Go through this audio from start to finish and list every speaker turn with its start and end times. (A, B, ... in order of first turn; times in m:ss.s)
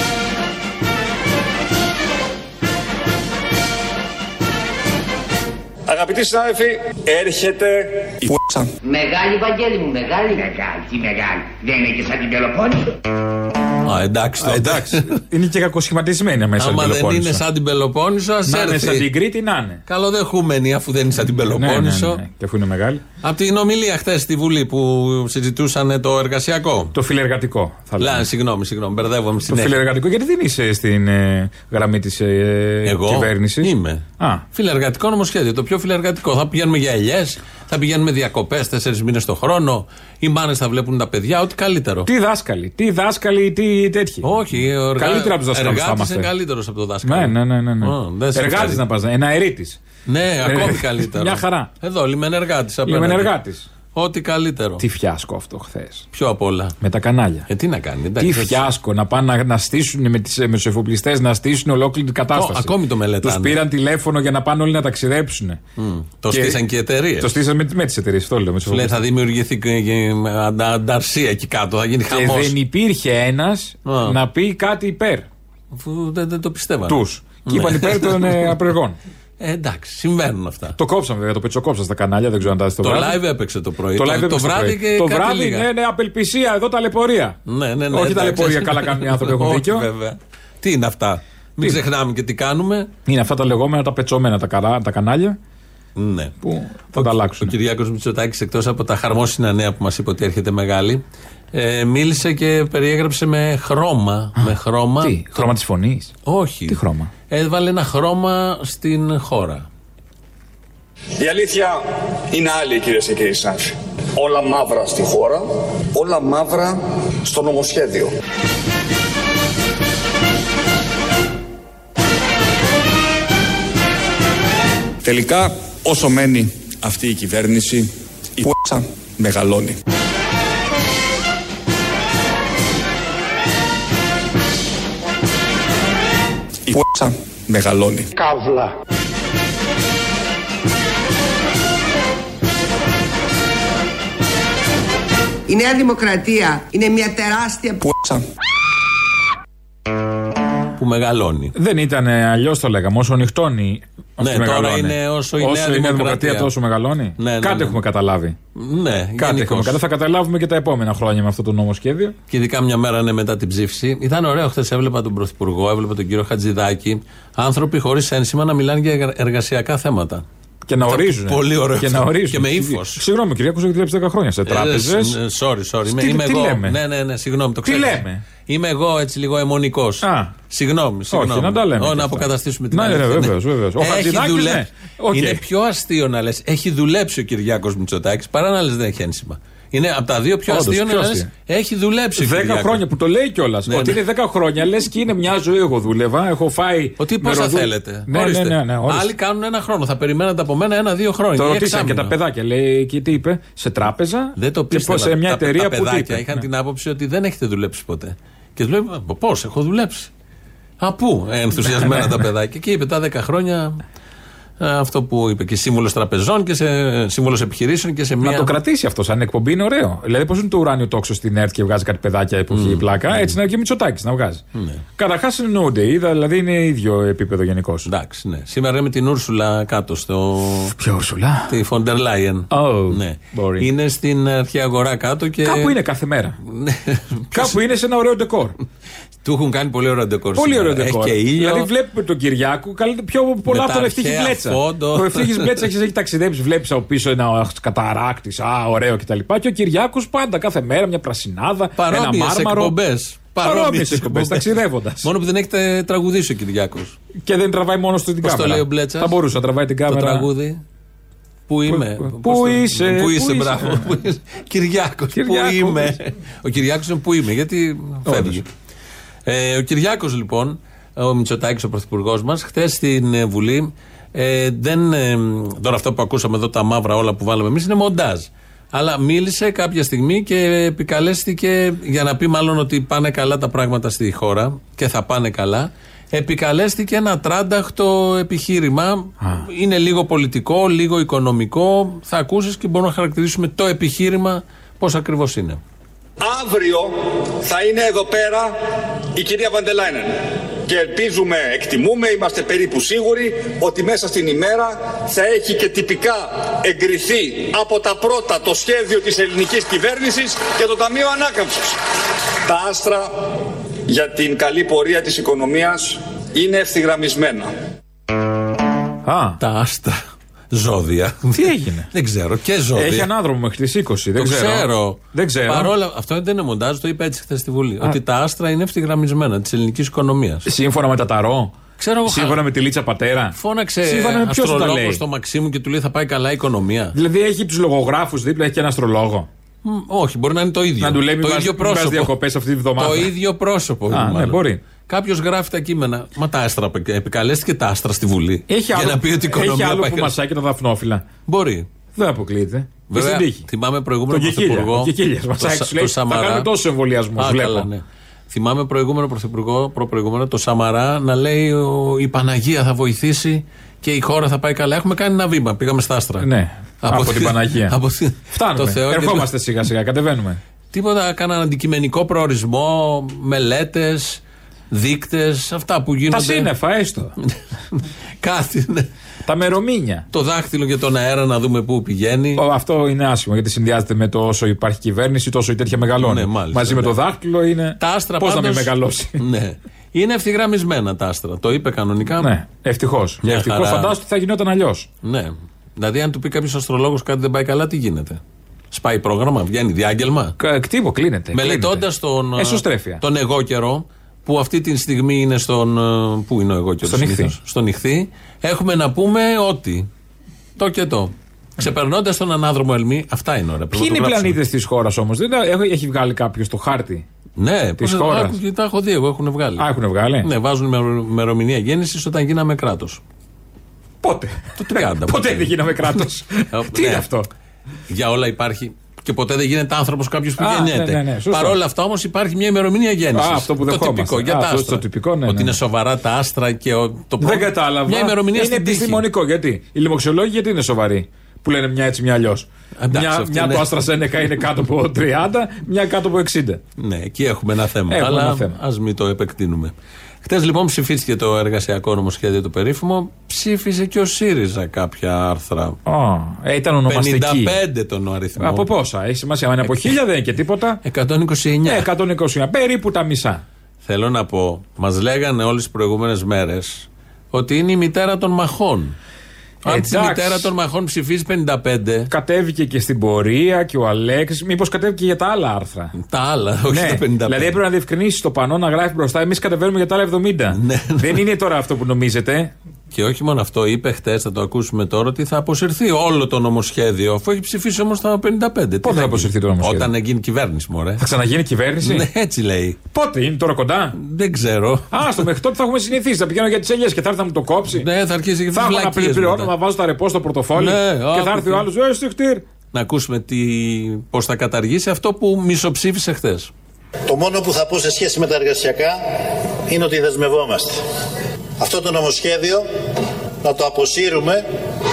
0:05.9-0:08.2 A
0:08.2-0:08.7 B
0:08.8-0:13.0 C
0:13.8-0:15.1 D
0:14.4-0:17.4 E
0:16.6-0:19.1 D
0:18.5-0:19.8 E
0:19.9-0:22.2 D
0:21.5-0:23.0 E
0:23.2-0:26.9 D
0:26.9-0:28.3 E
0:28.0-0:29.8 D
0:29.5-0:34.4 E
0:32.8-0:42.1 D
0:42.0-0:44.4 E
0:44.2-0:48.8 D
0:45.0-0:46.3 E
0:47.0-0:49.8 E
0:50.0-0:53.3 D
0:50.4-0:51.7 E
0:52.9-0:53.6 E
0:53.9-0:54.8 D
0:54.8-0:56.0 E
0:56.1-0:56.8 D
0:56.8-0:57.5 E
0:57.5-0:58.7 D
0:58.2-1:02.7 E
1:02.3-1:03.6 D
1:03.2-1:05.6 E
1:05.8-1:07.4 D
1:06.3-1:06.6 E
1:07.2-1:09.0 E
1:08.6-1:12.5 D
1:12.1-1:15.3 E
1:13.8-1:14.2 D
1:15.7-1:18.6 D
1:16.9-1:19.0 E
1:19.4-1:20.8 D
1:20.8-1:23.2 E
1:22.8-1:25.7 D
1:24.0-1:27.4 E
1:27.4-1:32.9 D
1:27.9-1:29.8 E
1:33.1-1:35.4 E
1:36.0-1:36.4 D
1:36.4-1:37.5 E
1:36.9-1:41.0 D
1:41.5-1:45.5 D
1:44.4-1:46.1 E
1:46.2-1:49.6 D
1:46.7-1:47.1 E
1:51.2-1:58.1 A
2:05.0-2:09.8 B
2:16.7-2:18.1 B
2:25.5-2:27.8 F
2:27.8-2:28.2 B
2:30.8-2:31.5 D
2:31.6-2:38.4 E
2:34.2-2:36.5 D
2:37.2-2:37.8 D
2:38.5-2:39.8 D
2:39.2-2:42.1 E
2:42.3-2:50.2 D
2:50.7-2:55.2 E
2:50.9-2:53.0 D
2:54.4-3:12.8 D
2:55.8-2:56.8 E
2:57.6-2:58.2 E
3:00.0-3:00.3 E
3:01.1-3:05.4 E
3:10.5-3:11.3 E
3:12.2-3:19.1 E
3:13.7-3:14.0 D
3:17.0-3:22.1 D
3:21.4-3:26.4 E
3:24.4-3:30.1 D
3:30.8-3:33.8 D
3:31.7-3:32.1 E
3:34.6-3:38.5 D
3:38.2-3:44.4 E
3:42.5-3:43.3 D
3:44.5-3:44.8 D
3:45.0-3:47.9 E
3:47.8-3:50.8 D
3:50.8-3:51.5 E
3:51.5-3:55.8 D
3:52.5-3:53.7 E
3:55.4-3:56.4 E
3:56.4-3:57.6 D
3:57.3-3:58.6 E
3:59.2-4:01.7 D
4:00.4-4:12.7 E
4:03.5-4:05.7 D
4:11.8-4:17.0 D
4:13.4-4:15.1 E
4:17.2-4:20.2 E
4:18.2-4:19.2 D
4:19.9-4:20.6 D
4:21.5-4:28.5 D
4:21.7-4:23.9 E
4:25.1-4:25.9 E
4:28.0-4:28.4 E
4:29.2-4:55.6 D
4:56.2-5:11.8 A
5:12.4-5:13.1 A
5:13.9-5:17.5 A
5:19.0-5:19.4 E
5:19.4-5:23.1 D
5:21.3-5:21.9 E
5:22.8-5:25.7 E
5:24.2-5:30.5 D
5:30.4-5:31.5 E
5:31.8-5:32.4 D
5:32.1-5:35.0 E
5:33.4-5:36.9 D
5:36.9-5:39.3 E
5:39.6-5:42.1 D
5:40.8-5:43.1 E
5:42.8-5:50.1 D
5:43.9-5:44.6 E
5:48.5-5:51.0 E
5:51.3-5:51.7 D
5:52.0-5:53.5 E
5:52.9-5:56.5 D
5:54.1-5:57.7 E
5:57.2-6:06.3 D
6:06.2-6:07.7 E
6:06.8-6:09.3 D
6:08.3-6:10.4 E
6:10.7-6:16.5 D
6:16.1-6:17.2 E
6:17.2-6:18.9 D
6:19.2-6:20.0 E
6:20.1-6:22.4 D
6:22.4-6:29.2 E
6:26.0-6:26.9 D
6:27.8-6:32.3 D
6:32.2-6:34.9 E
6:33.2-6:34.0 D
6:35.0-6:38.2 D
6:38.7-6:40.4 D
6:40.4-6:41.8 E
6:41.3-6:49.9 D
6:42.4-6:43.0 E
6:46.8-6:47.3 E
6:50.6-6:54.4 D
6:53.7-6:57.0 E
6:57.4-6:59.7 D
6:57.8-6:58.4 E
6:59.6-7:00.3 E
7:00.2-7:03.0 D
7:04.0-7:07.3 E
7:04.6-7:07.1 D
7:07.9-7:19.0 D
7:10.4-7:11.6 E
7:13.1-7:15.6 E
7:17.2-7:26.6 E
7:22.8-7:23.8 D
7:26.8-7:35.8 D
7:27.9-7:28.6 E
7:35.8-7:37.5 E
7:36.9-7:38.7 D
7:38.4-7:40.8 E
7:39.6-7:39.9 D
7:40.8-7:41.9 D
7:41.6-7:43.4 E
7:43.8-7:49.0 D
7:49.6-7:52.1 D
7:49.6-7:50.5 E
7:52.1-7:55.9 E
7:56.0-7:57.6 D
7:56.7-8:02.5 E
8:00.5-8:01.2 D
8:02.9-8:11.0 D
8:08.8-8:09.9 E
8:11.0-8:12.1 E
8:11.8-8:12.8 D
8:12.9-8:14.0 E
8:14.0-8:15.2 D
8:14.9-8:17.8 E
8:17.7-8:19.5 D
8:18.5-8:22.4 E
8:20.5-8:21.6 D
8:22.7-8:26.5 D
8:27.1-8:30.8 G
8:31.6-8:32.7 G
8:33.4-8:34.4 G